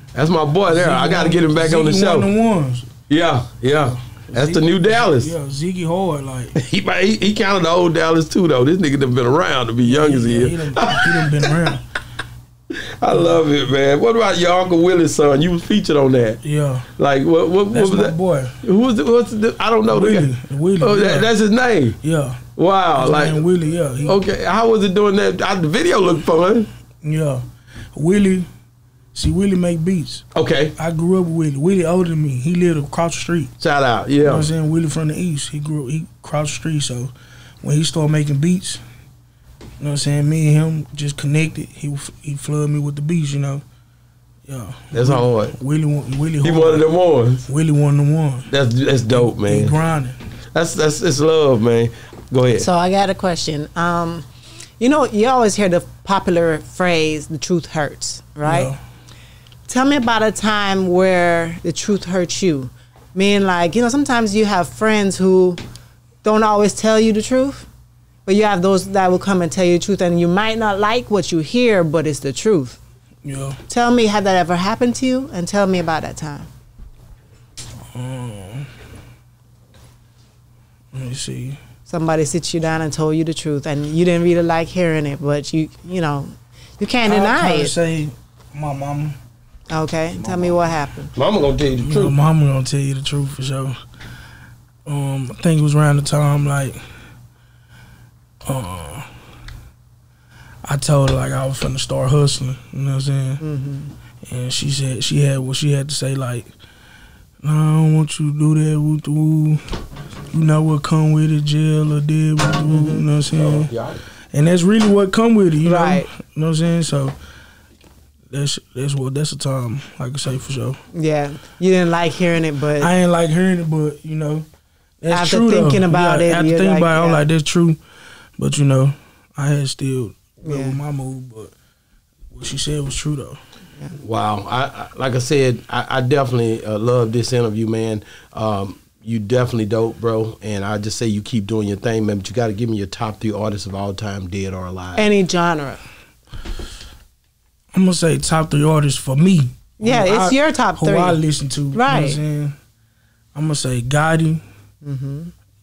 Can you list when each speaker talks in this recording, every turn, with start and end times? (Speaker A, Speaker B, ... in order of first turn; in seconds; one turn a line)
Speaker A: 0.1-2.3
Speaker B: 0.7-2.9
Speaker A: 3.1-5.3
Speaker B: 3.9-6.6
Speaker A: 6.5-11.7
Speaker B: 9.9-11.8
Speaker A: 12.7-16.4
Speaker B: 13.1-13.4
Speaker B: 16.4-16.9
Speaker A: 17.0-22.0
Speaker B: 17.7-18.6
Speaker B: 19.9-21.3
Speaker B: 22.0-24.2
Speaker A: 22.6-23.4
Speaker A: 24.0-26.7
Speaker B: 27.0-28.5
Speaker B: 29.1-30.2
Speaker A: 30.3-30.8
Speaker B: 30.8-33.5
Speaker A: 33.6-34.5
Speaker B: 34.2-38.8
Speaker B: 39.8-43.6
Speaker B: 44.5-46.9
Speaker A: 44.9-45.6
Speaker A: 46.4-47.5
Speaker B: 47.5-48.5
Speaker A: 48.5-49.8
Speaker B: 49.1-50.2
Speaker A: 50.5-52.7
Speaker C: 52.6-54.3
Speaker C: 54.8-58.7
Speaker B: 58.4-58.8
Speaker C: 59.7-65.6
Speaker C: 66.2-67.7
Speaker C: 68.3-72.8
Speaker B: 73.2-73.6
Speaker C: 73.7-76.5
Speaker B: 77.9-78.7
Speaker B: 80.9-81.6
Speaker C: 81.9-87.7
Speaker B: 87.0-89.2
Speaker C: 89.7-91.1
Speaker A: 91.2-92.2
Speaker B: 91.8-93.8
Speaker B: 94.9-96.8
Speaker B: 98.5-99.1
Speaker B: 100.6-103.4
Speaker C: 103.4-103.9
Speaker B: 104.3-106.5
Speaker B: 107.4-109.6
Speaker B: 110.3-113.7
Speaker A: 113.3-114.0
Speaker B: 114.3-117.2
Speaker C: 115.7-116.1
Speaker B: 118.3-120.8
Speaker C: 120.9-122.9
Speaker B: 122.8-124.5
Speaker B: 125.0-127.8
Speaker C: 125.1-127.2
Speaker B: 128.4-131.5
Speaker C: 130.4-130.8
Speaker B: 132.3-133.4
Speaker A: 134.0-145.1
Speaker C: 144.9-145.8
Speaker B: 147.7-152.6
Speaker C: 149.8-151.2
Speaker C: 151.7-152.2
Speaker B: 153.3-154.4
Speaker C: 154.8-155.3